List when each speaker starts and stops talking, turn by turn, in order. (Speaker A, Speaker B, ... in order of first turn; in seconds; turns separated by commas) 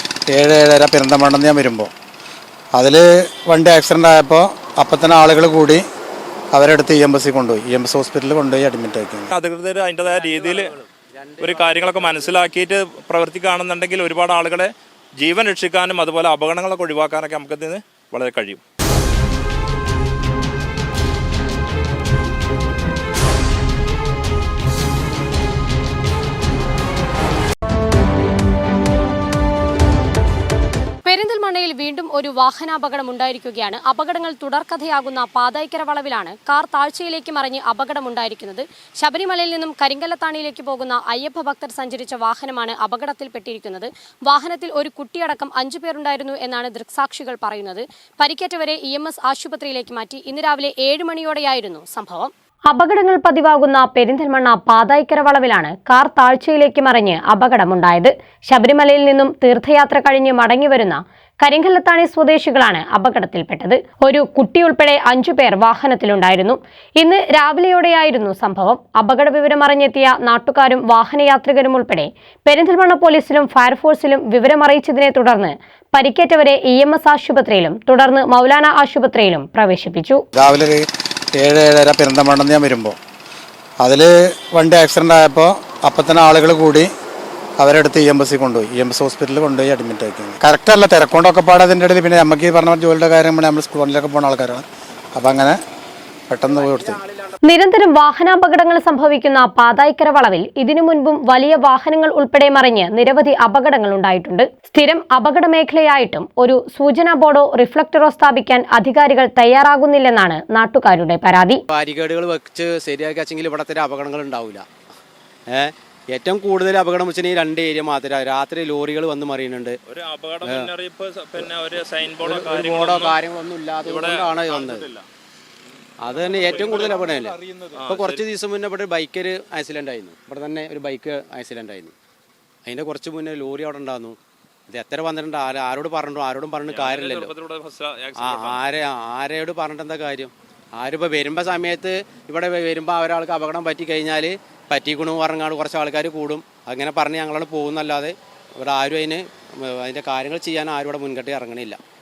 Speaker A: 0.3-1.9, Speaker A: 2.8-5.8, Speaker A: 6.5-9.3, Speaker B: 9.3-10.7, Speaker C: 10.0-12.5, Speaker B: 11.4-18.6, Speaker D: 31.1-80.2, Speaker A: 80.3-80.8, Speaker A: 81.4-83.0, Speaker A: 83.8-86.9, Speaker A: 87.6-94.6, Speaker A: 95.2-95.5, Speaker A: 96.3-97.0, Speaker D: 97.5-111.6, Speaker C: 111.7-114.7, Speaker C: 115.5-119.8, Speaker B: 119.9-123.2, Speaker C: 122.1-124.9, Speaker B: 123.8-125.0, Speaker C: 126.0-131.9, Speaker B: 126.2-128.2, Speaker C: 132.7-134.2, Speaker C: 134.7-137.3, Speaker B: 136.7-138.6, Speaker C: 138.2-151.8